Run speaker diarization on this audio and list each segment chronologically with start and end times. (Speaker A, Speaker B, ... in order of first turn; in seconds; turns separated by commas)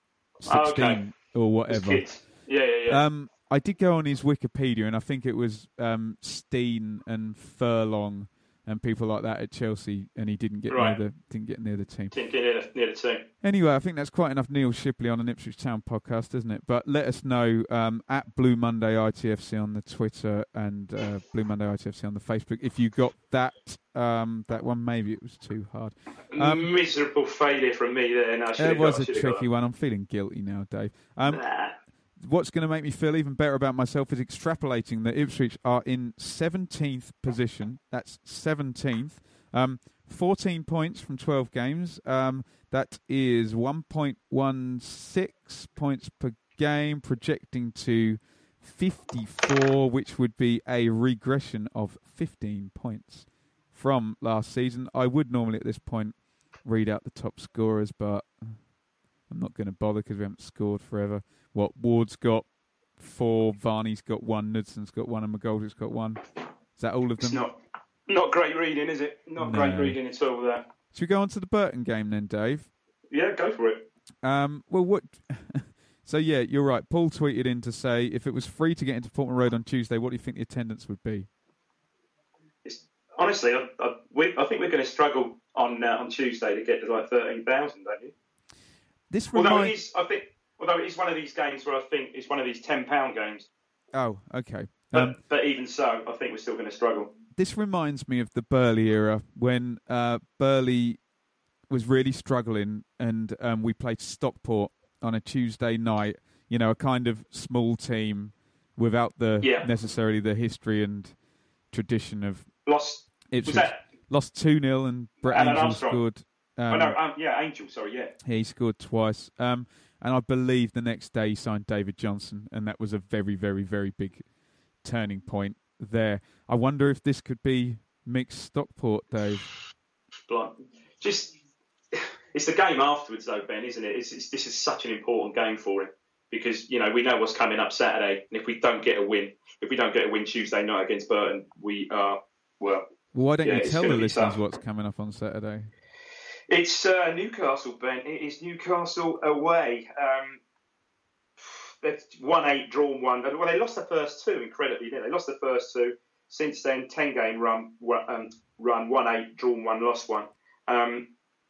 Speaker A: 0.4-12.2, Speaker B: 0.4-1.1, Speaker B: 1.7-3.0, Speaker B: 10.7-11.0, Speaker B: 12.1-13.3, Speaker A: 13.4-26.7, Speaker B: 26.3-29.5, Speaker A: 28.6-31.5, Speaker B: 31.3-31.8, Speaker A: 32.2-58.6, Speaker A: 59.3-67.4, Speaker B: 67.2-70.6, Speaker A: 69.4-70.0, Speaker A: 70.9-72.7, Speaker B: 73.1-73.9, Speaker A: 74.2-81.3, Speaker B: 82.6-88.1, Speaker A: 89.1-89.8, Speaker B: 89.3-93.5, Speaker A: 93.9-95.2, Speaker B: 94.9-97.1, Speaker A: 97.3-101.0, Speaker A: 101.7-111.2, Speaker B: 109.4-109.7, Speaker A: 111.7-112.6, Speaker B: 112.7-113.8, Speaker A: 113.3-117.0, Speaker B: 115.2-116.1, Speaker B: 116.7-118.1, Speaker A: 118.2-124.3, Speaker A: 124.8-129.5, Speaker B: 130.3-131.4, Speaker B: 131.9-142.9, Speaker A: 143.1-145.7, Speaker B: 143.4-144.4, Speaker B: 146.5-150.4, Speaker B: 151.4-161.1